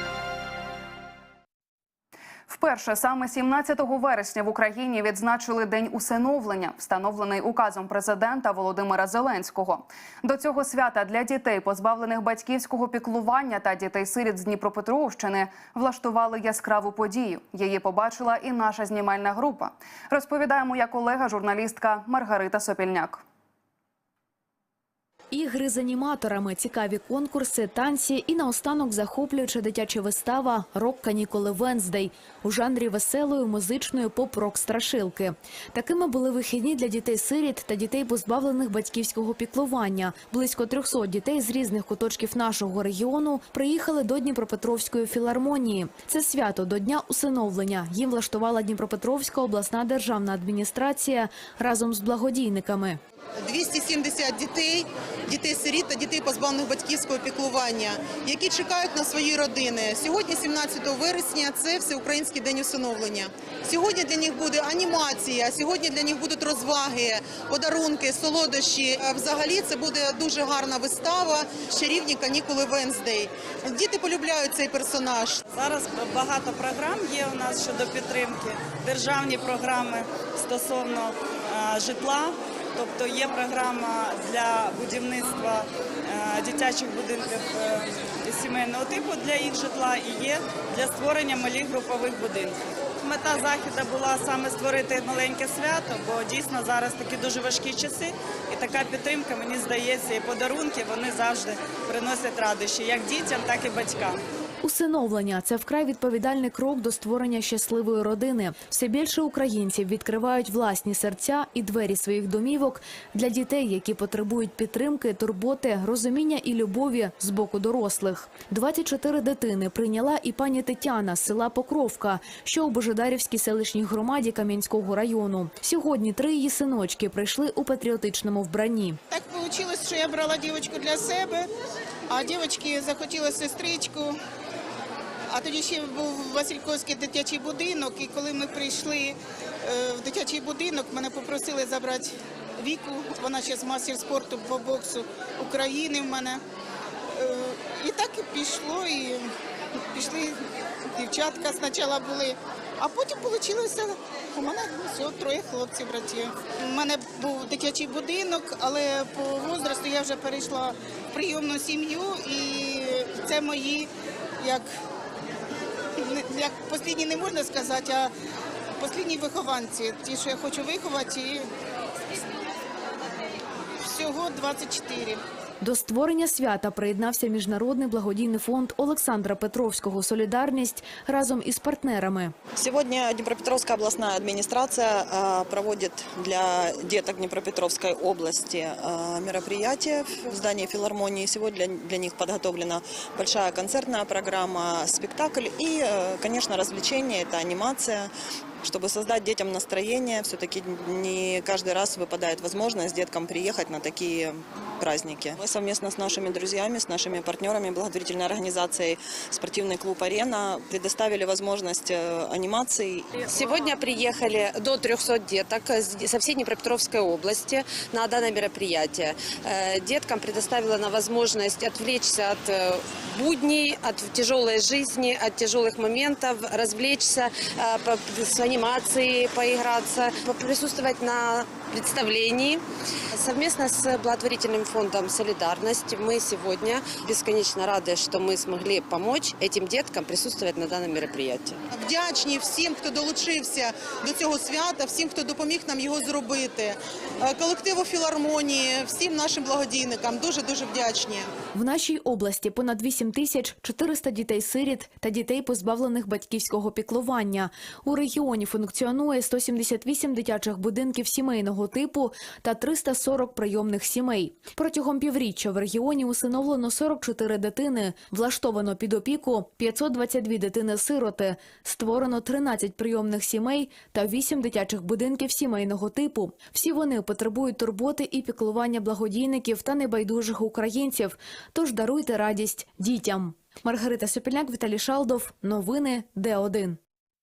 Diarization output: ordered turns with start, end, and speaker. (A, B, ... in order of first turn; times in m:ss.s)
0:02.5-0:23.2 A
0:25.3-0:53.0 B
0:53.4-1:15.4 C
1:15.5-1:44.2 D
1:44.6-2:09.0 B
2:09.1-2:11.5 E
2:12.1-2:14.2 E
2:15.3-2:26.4 E
2:27.1-2:44.7 E
2:46.0-2:48.1 E
2:48.8-2:51.5 E
2:53.8-2:55.2 E
2:55.6-3:02.3 B
3:02.6-3:18.1 F
3:18.6-3:33.1 F
3:33.2-3:52.6 G
3:53.1-4:01.6 G
4:01.7-4:11.3 C
4:11.6-4:46.8 B